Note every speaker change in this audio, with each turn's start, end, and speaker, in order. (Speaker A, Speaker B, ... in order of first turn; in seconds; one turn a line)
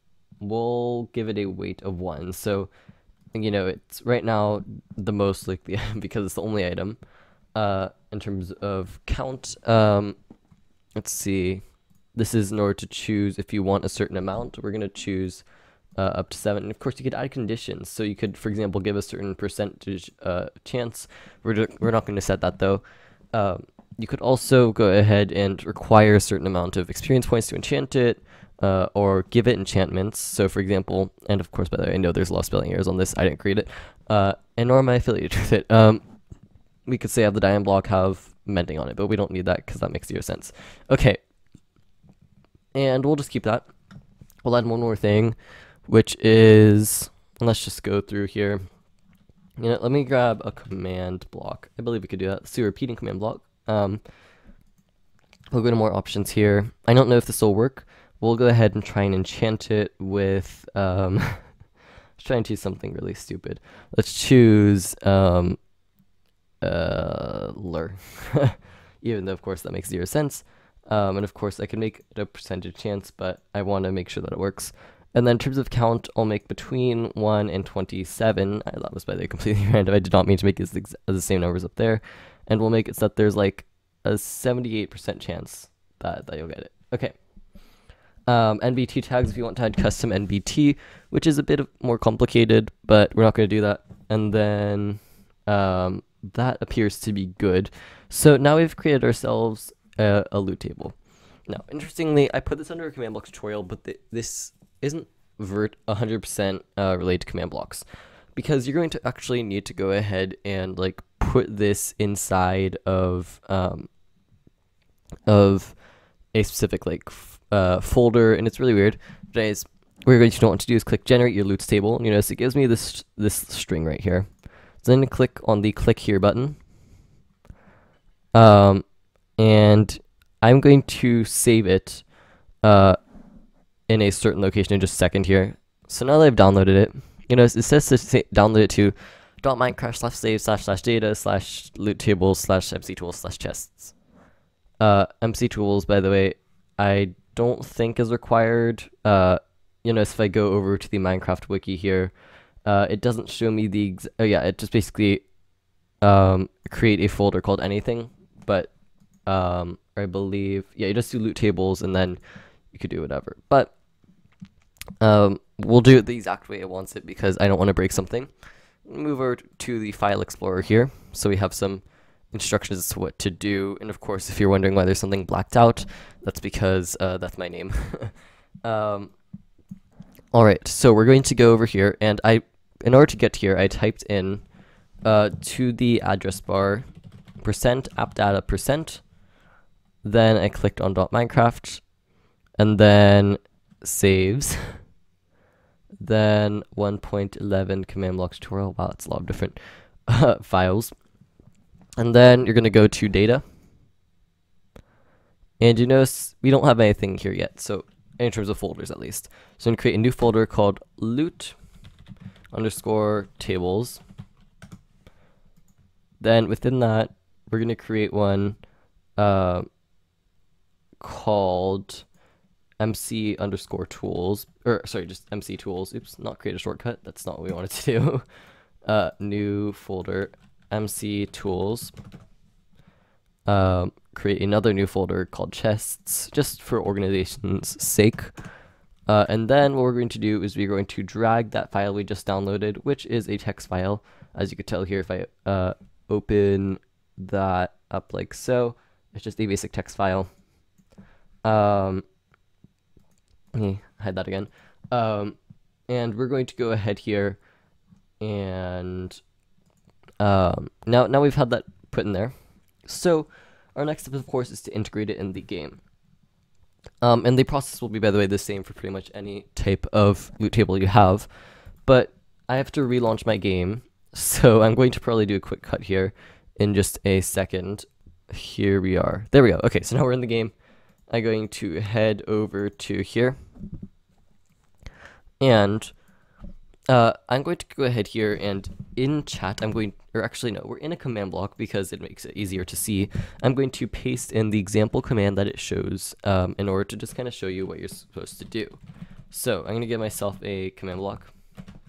Speaker A: 0.4-2.7
Speaker A: 3.3-7.0
Speaker A: 7.5-10.2
Speaker A: 11.0-11.6
Speaker A: 12.1-15.4
Speaker A: 16.0-36.0
Speaker A: 36.9-41.2
Speaker A: 42.7-43.7
Speaker A: 44.4-48.6
Speaker A: 49.6-54.0
Speaker A: 55.5-61.5
Speaker A: 62.2-65.6
Speaker A: 66.6-87.1
Speaker A: 88.3-100.9
Speaker A: 101.5-113.9
Speaker A: 115.3-115.8
Speaker A: 116.3-124.3
Speaker A: 124.8-126.6
Speaker A: 128.3-128.8
Speaker A: 129.4-132.0
Speaker A: 132.6-133.0
Speaker A: 133.9-143.9
Speaker A: 144.8-152.1
Speaker A: 152.7-155.2
Speaker A: 156.0-158.7
Speaker A: 159.3-162.2
Speaker A: 162.7-163.7
Speaker A: 165.0-168.3
Speaker A: 168.8-179.1
Speaker A: 180.3-184.4
Speaker A: 185.0-186.8
Speaker A: 187.4-189.0
Speaker A: 190.0-191.8
Speaker A: 192.6-194.7
Speaker A: 196.0-200.9
Speaker A: 202.0-203.4
Speaker A: 205.6-211.6
Speaker A: 212.5-214.0
Speaker A: 216.2-218.6
Speaker A: 219.2-219.7
Speaker A: 221.0-222.1
Speaker A: 222.8-228.2
Speaker A: 228.8-231.9
Speaker A: 233.5-238.3
Speaker A: 239.1-250.3
Speaker A: 251.4-252.0
Speaker A: 253.5-255.4
Speaker A: 255.9-257.4
Speaker A: 258.2-259.2
Speaker A: 260.2-262.3
Speaker A: 262.8-265.8
Speaker A: 267.0-271.3
Speaker A: 271.9-280.5
Speaker A: 281.1-283.4
Speaker A: 285.4-285.9
Speaker A: 286.9-301.3